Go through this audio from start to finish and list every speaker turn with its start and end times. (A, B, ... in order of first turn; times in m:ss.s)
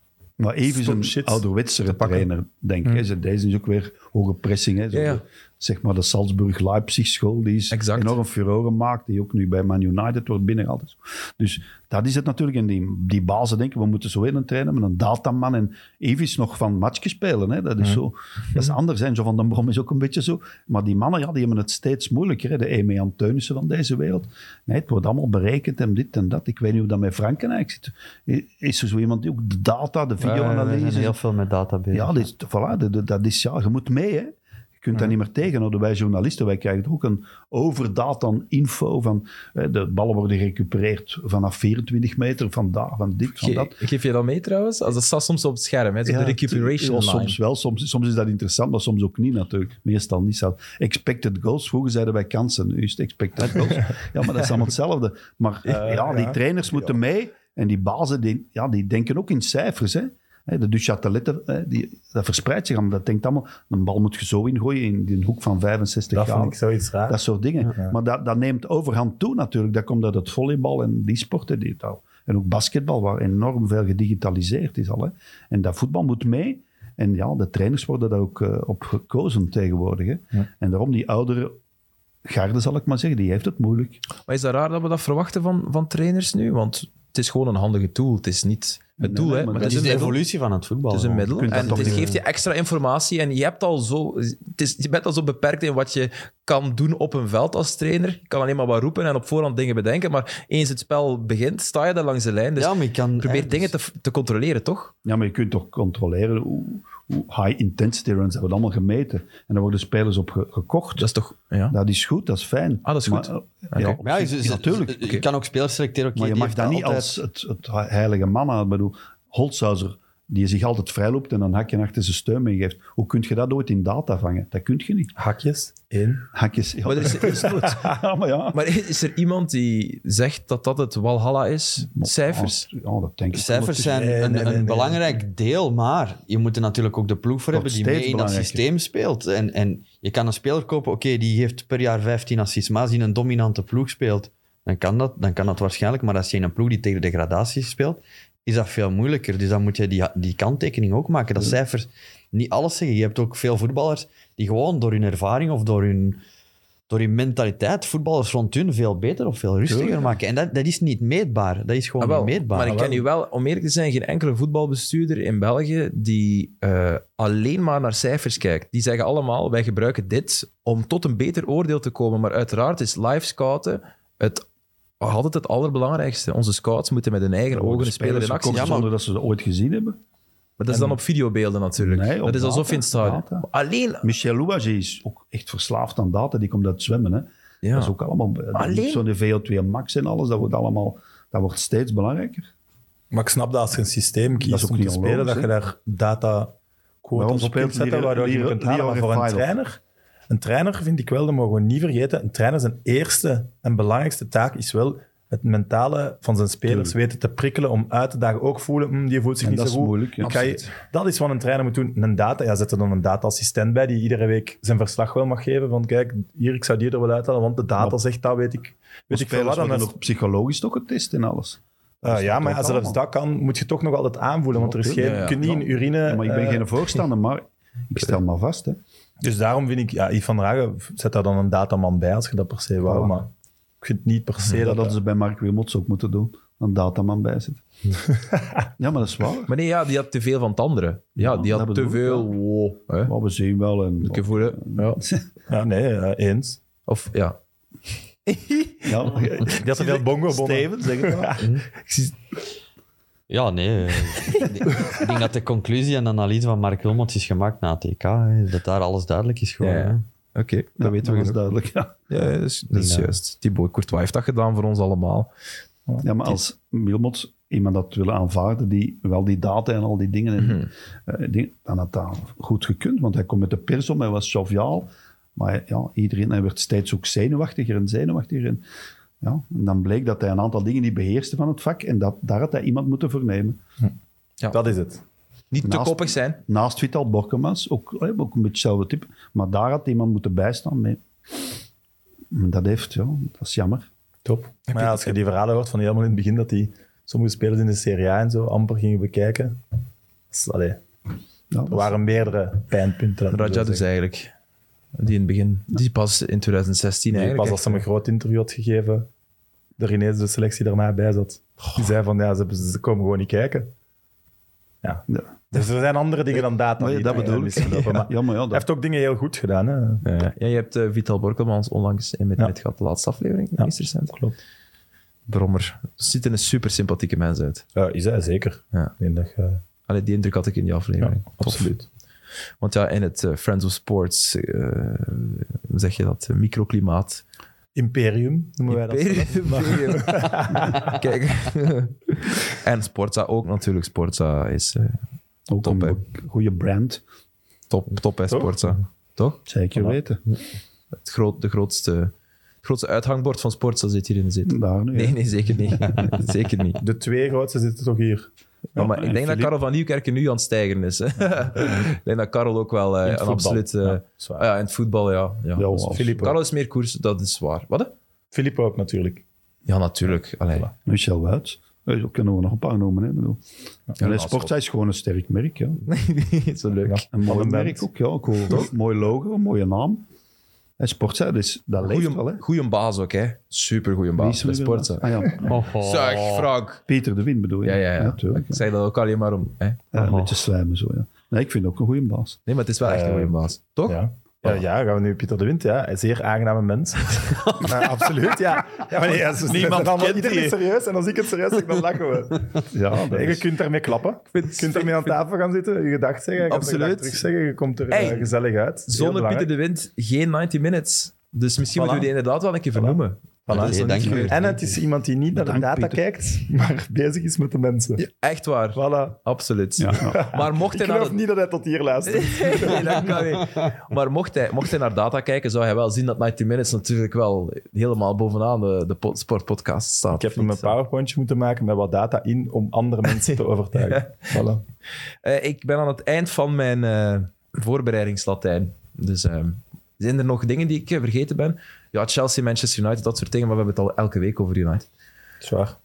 0:00.4-0:31.2 A
0:00.6-0:02.2 B
0:04.9-0:05.2 C
0:07.7-0:08.2 C
0:30.2-0:32.3 D
0:31.9-0:43.8 A
0:43.3-0:47.4 C
0:46.0-1:06.6 A
0:55.7-0:56.4 B
1:06.1-1:07.2 B
1:07.1-1:21.6 A
1:22.2-1:24.0 A
1:24.2-1:30.2 C
1:29.0-1:30.0 A
1:29.5-1:32.2 D
1:30.9-1:44.9 C
1:31.4-1:32.2 A
1:42.6-1:43.7 D
1:45.0-1:51.1 A
1:51.0-1:51.8 C
1:51.7-1:55.1 A
1:52.8-1:55.2 C
1:54.0-1:57.2 D
1:56.1-2:05.1 A
2:05.2-2:06.3 B
2:06.3-2:08.6 A
2:06.8-2:07.8 C
2:08.5-2:12.6 C
2:11.9-2:14.2 A
2:13.3-2:36.2 D
2:13.9-2:15.1 B
2:17.5-2:18.6 A
2:36.9-2:42.8 D
2:39.6-2:40.1 A
2:42.0-2:54.4 C
2:42.6-2:43.0 B
2:55.0-2:58.8 C
2:57.5-3:00.0 A
2:58.5-2:58.9 D
3:00.6-3:04.1 C
3:00.7-3:01.0 A
3:01.8-3:03.4 A
3:04.0-3:12.5 A
3:07.6-3:07.9 C
3:08.5-3:09.0 C
3:13.1-3:39.9 B
3:14.4-3:15.5 A
3:17.2-3:19.5 A
3:26.7-3:26.9 A
3:29.4-3:30.3 A
3:30.2-3:30.8 C
3:39.1-3:43.0 A
3:42.0-3:46.7 B
3:44.5-3:48.8 A
3:45.0-3:45.4 C
3:49.2-3:55.0 B
3:52.8-3:53.1 A
3:54.6-3:57.6 A
3:58.1-3:58.6 B
3:58.8-3:59.5 A
3:59.5-4:03.1 C
4:01.2-4:02.3 A
4:03.0-4:05.3 A
4:04.0-4:05.0 C
4:05.5-4:06.6 B
4:06.9-4:07.4 C
4:08.3-4:09.1 C
4:08.8-4:11.3 A
4:09.4-4:11.5 B
4:11.4-4:11.7 D
4:11.8-4:12.1 C
4:13.3-4:20.0 D
4:14.1-4:14.5 C
4:19.6-4:21.4 C
4:20.8-4:21.9 A
4:22.1-4:25.3 C
4:22.7-4:23.1 D
4:26.0-4:38.6 A
4:30.4-4:30.7 C
4:39.2-4:43.6 A
4:44.5-4:45.0 B
4:45.5-4:46.4 C
4:45.6-4:51.0 A
4:52.3-4:53.9 A
4:54.2-4:59.6 B
4:54.7-4:55.1 C
5:00.3-5:00.8 B
5:01.5-5:01.9 A
5:01.7-5:03.8 B
5:03.3-5:04.3 C
5:05.0-5:07.8 C
5:07.1-5:09.1 B
5:09.8-5:13.7 B
5:14.8-5:20.1 B
5:16.3-5:18.6 A
5:17.6-5:18.0 C
5:20.0-5:24.1 C
5:23.6-5:24.4 B
5:25.3-5:27.6 C
5:27.8-5:29.6 B
5:29.9-5:31.9 C
5:31.0-5:31.8 B
5:32.6-5:37.2 C
5:37.7-5:41.0 B
5:38.7-5:45.0 C
5:45.5-5:47.0 A
5:45.6-5:46.0 C
5:47.7-5:49.8 C
5:48.3-5:48.5 B
5:49.4-5:50.2 A
5:51.0-5:56.8 C
5:54.5-5:55.8 A
5:56.8-5:58.3 B
5:58.8-5:59.5 A
5:58.8-6:07.9 C
6:03.0-6:04.4 B
6:05.6-6:06.3 A
6:05.8-6:06.4 B
6:08.3-6:09.2 B
6:09.6-6:10.7 C
6:10.8-6:13.4 A
6:14.0-6:15.8 A
6:14.0-6:14.5 C
6:15.9-6:17.0 C
6:16.8-6:17.8 B
6:17.1-6:20.0 A
6:20.8-6:22.4 A
6:21.8-6:26.8 C
6:24.2-6:25.5 A
6:25.4-6:26.5 D
6:26.9-6:28.6 A
6:27.6-6:29.8 C
6:29.9-6:32.4 A
6:30.0-6:30.3 D
6:32.5-6:34.5 C
6:32.8-6:49.5 B
6:37.1-6:38.0 C
6:39.3-6:40.6 C
6:42.7-6:43.4 A
6:44.3-6:45.2 C
6:46.5-6:47.2 C
6:47.9-6:48.3 C
6:48.9-6:54.4 C
6:51.7-6:52.1 B
6:52.7-6:58.0 B
6:53.5-6:54.7 D
6:55.3-6:56.0 A
6:58.0-7:01.2 C
6:58.7-6:59.2 B
6:59.8-7:00.2 A
7:00.0-7:03.4 B
7:02.0-7:10.7 C
7:10.1-7:14.6 B
7:13.1-7:14.4 C
7:15.2-7:24.8 C
7:25.4-7:25.8 B